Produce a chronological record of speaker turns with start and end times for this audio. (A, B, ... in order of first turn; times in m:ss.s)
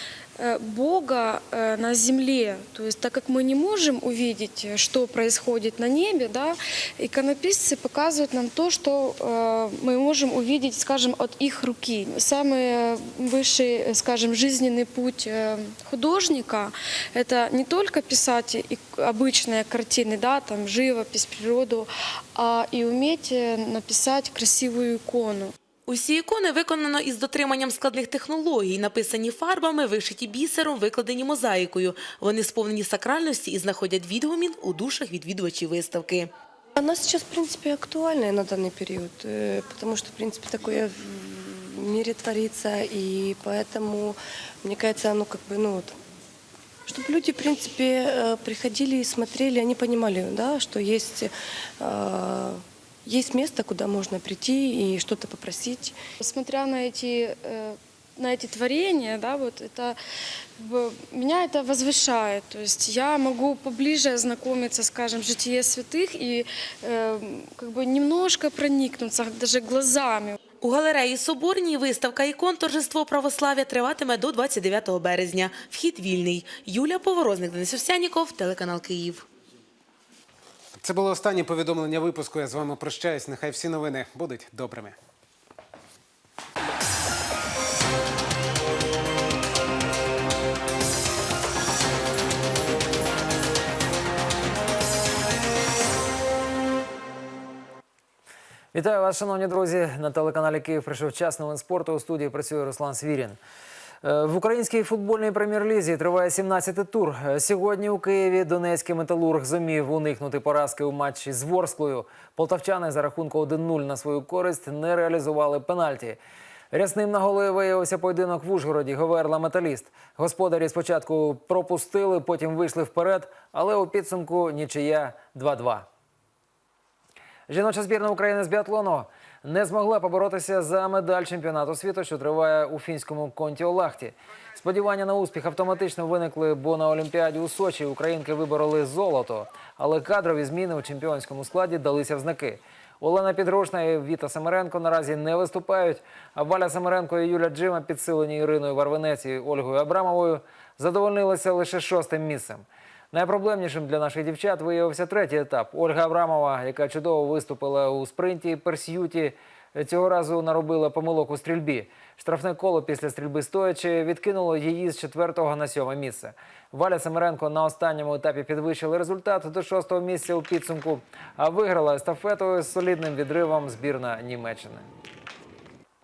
0:00.4-0:25.5 A
0:25.9-0:36.3 B
0:36.8-0:46.0 C
0:46.9-0:56.0 C
0:56.2-1:00.0 A
1:00.6-1:10.4 A
1:10.6-1:19.2 B
1:20.8-1:24.9 D
1:38.7-1:43.4 E
1:44.0-1:56.2 E
1:56.7-2:05.9 E
2:07.5-2:54.9 E